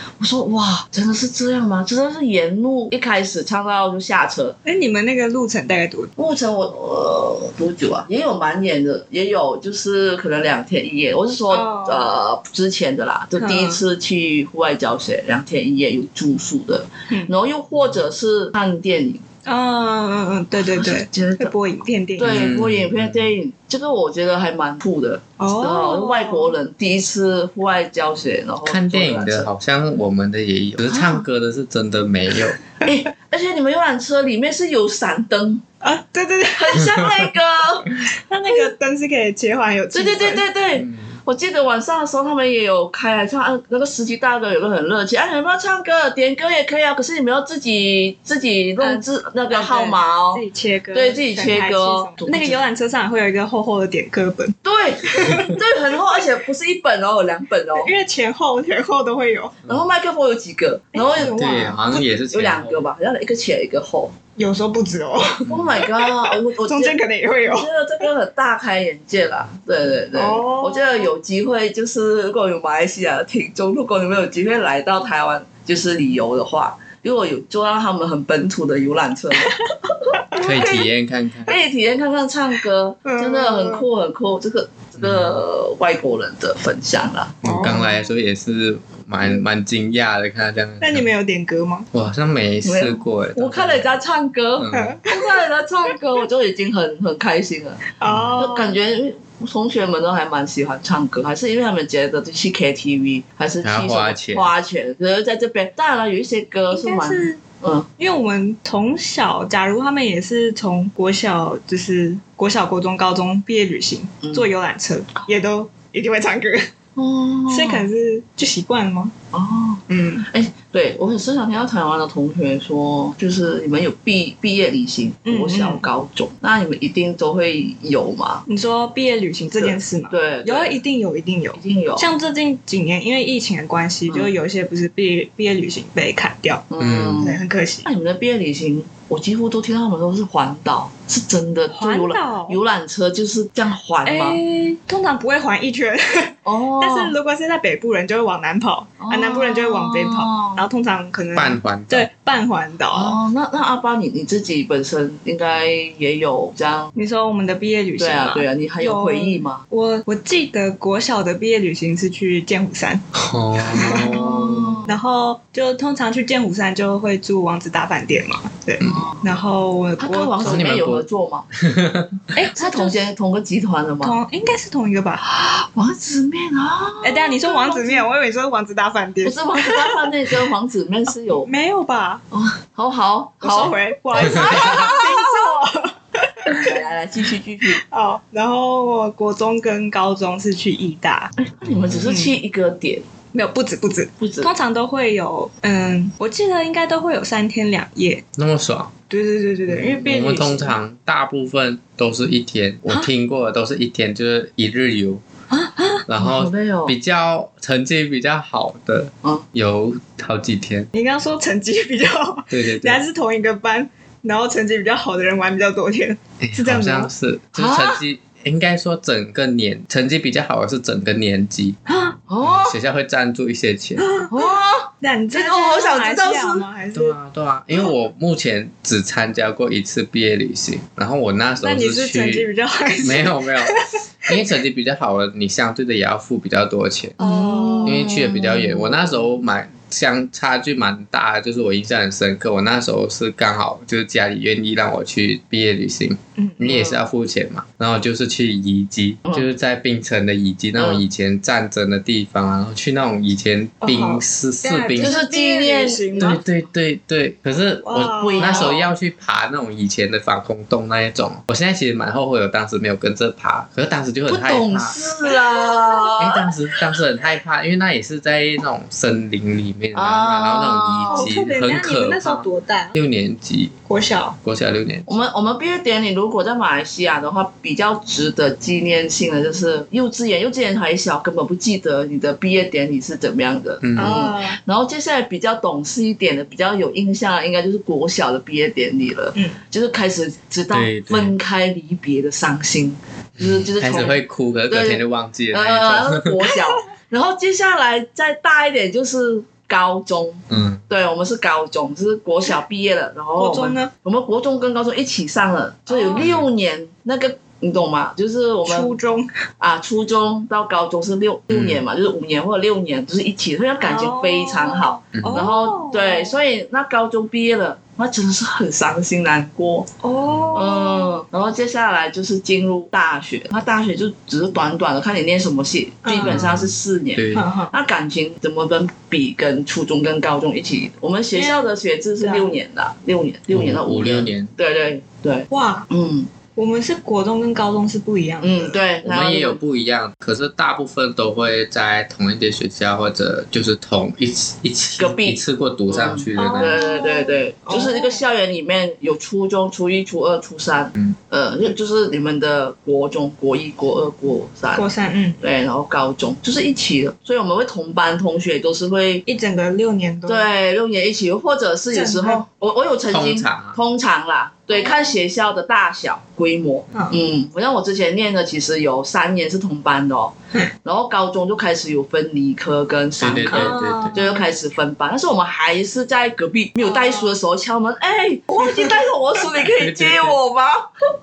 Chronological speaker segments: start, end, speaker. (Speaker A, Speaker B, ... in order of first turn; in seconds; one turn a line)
Speaker A: 0.2-4.5
Speaker B: 4.6-6.1
Speaker A: 6.2-19.2
Speaker B: 11.5-12.1
Speaker B: 13.4-13.8
Speaker B: 19.4-22.5
Speaker A: 20.6-21.5
Speaker A: 22.2-29.5
Speaker C: 22.2-23.3
Speaker B: 25.4-26.5
Speaker C: 28.6-32.6
Speaker A: 30.9-31.2
Speaker A: 32.8-35.6
Speaker B: 35.8-37.0
Speaker A: 36.5-38.7
Speaker B: 38.3-40.4
Speaker A: 39.9-52.6
Speaker C: 40.8-41.1
Speaker B: 48.8-55.6
Speaker A: 54.6-57.9
Speaker B: 57.7-59.5
Speaker A: 59.6-61.3
Speaker B: 60.9-62.0
Speaker C: 61.1-62.9
Speaker A: 62.3-64.2
Speaker B: 64.4-68.0
Speaker C: 65.5-65.8
Speaker A: 65.5-79.6
Speaker B: 70.1-71.1
Speaker A: 80.1-80.9
Speaker C: 80.3-81.5
Speaker A: 81.5-87.4
Speaker B: 83.0-83.8
Speaker C: 85.0-85.4
Speaker B: 87.4-88.0
Speaker C: 87.4-91.0
Speaker B: 90.8-91.9
Speaker C: 91.9-93.9
Speaker A: 92.6-97.8
Speaker C: 94.6-95.0
Speaker B: 94.7-95.4
Speaker B: 98.0-98.7
Speaker C: 98.0-98.4
Speaker A: 98.4-107.9
Speaker C: 103.6-104.5
Speaker B: 106.7-107.4
Speaker B: 108.0-116.7
Speaker A: 114.2-114.5
Speaker A: 117.0-117.8
Speaker B: 117.5-119.1
Speaker A: 119.3-128.4
Speaker B: 119.9-120.3
Speaker B: 125.2-125.9
Speaker B: 128.5-136.7
Speaker A: 129.5-130.7
Speaker A: 131.6-132.1
Speaker A: 136.7-144.4
Speaker C: 136.8-137.3
Speaker B: 137.2-137.8
Speaker B: 141.7-142.6
Speaker B: 144.0-153.2
Speaker A: 146.4-147.1
Speaker A: 149.0-150.6
Speaker C: 151.3-152.1
Speaker A: 152.9-156.9
Speaker B: 156.9-163.0
Speaker A: 158.0-159.6
Speaker C: 163.1-164.8
Speaker B: 163.7-170.7
Speaker A: 163.7-164.9
Speaker A: 168.8-169.3
Speaker A: 170.0-171.5
Speaker C: 170.4-172.2
Speaker B: 172.3-173.1
Speaker A: 172.6-174.2
Speaker B: 174.0-175.2
Speaker A: 175.2-178.1
Speaker B: 177.0-180.3
Speaker A: 179.2-181.5
Speaker B: 181.4-182.2
Speaker A: 182.3-185.4
Speaker B: 183.4-186.8
Speaker C: 184.3-184.8
Speaker A: 186.5-187.8
Speaker B: 187.7-191.3
Speaker A: 191.4-193.0
Speaker C: 191.6-192.1
Speaker B: 192.1-192.3
Speaker B: 193.3-198.2
Speaker A: 194.2-194.5
Speaker C: 198.3-198.9
Speaker B: 199.1-200.7
Speaker C: 199.7-205.2
Speaker B: 205.5-206.1
Speaker C: 206.1-210.9
Speaker A: 206.2-206.9
Speaker B: 210.9-217.1
Speaker C: 212.5-213.0
Speaker C: 216.4-221.8
Speaker A: 217.5-218.0
Speaker B: 221.9-222.2
Speaker A: 222.3-222.8
Speaker C: 222.4-224.1
Speaker B: 224.0-227.2
Speaker A: 224.3-226.7
Speaker C: 226.9-232.5
Speaker B: 231.6-234.3
Speaker C: 233.0-237.2
Speaker B: 237.2-238.1
Speaker A: 237.2-239.2
Speaker C: 237.8-255.2
Speaker A: 246.6-247.0
Speaker A: 250.8-251.0
Speaker B: 253.8-256.4
Speaker A: 255.0-256.4
Speaker C: 256.2-265.0
Speaker B: 257.8-258.8
Speaker A: 258.2-258.9
Speaker A: 264.3-266.5
Speaker C: 266.2-273.8
Speaker A: 269.9-271.4
Speaker B: 271.1-272.9
Speaker B: 273.9-274.4
Speaker C: 274.4-275.1
Speaker A: 275.1-308.9
Speaker C: 283.8-284.3
Speaker B: 284.0-284.6
Speaker C: 290.7-291.3
Speaker C: 293.4-296.4
Speaker C: 300.5-300.8
Speaker B: 303.4-303.9
Speaker B: 305.9-306.3
Speaker C: 306.2-306.5
Speaker B: 308.6-309.3
Speaker A: 309.6-319.9
Speaker C: 311.5-311.8
Speaker B: 313.8-316.4
Speaker C: 315.1-315.5
Speaker B: 320.0-321.2
Speaker C: 320.2-320.6
Speaker A: 320.5-336.3
Speaker B: 326.0-326.5
Speaker C: 326.2-327.4
Speaker B: 327.3-327.7
Speaker B: 331.3-332.5
Speaker C: 333.5-334.5
Speaker B: 335.5-335.9
Speaker B: 336.6-338.8
Speaker A: 338.4-339.6
Speaker C: 339.0-346.8
Speaker A: 345.0-354.8
Speaker B: 346.4-348.2
Speaker B: 354.7-355.4
Speaker A: 355.4-359.2
Speaker B: 359.2-360.5
Speaker A: 360.2-380.8
Speaker B: 361.9-362.4
Speaker C: 363.1-363.8
Speaker B: 364.7-365.2
Speaker B: 366.9-367.2
Speaker C: 373.2-374.2
Speaker B: 373.5-374.5
Speaker B: 376.8-377.3
Speaker B: 378.6-378.9
Speaker C: 379.5-380.4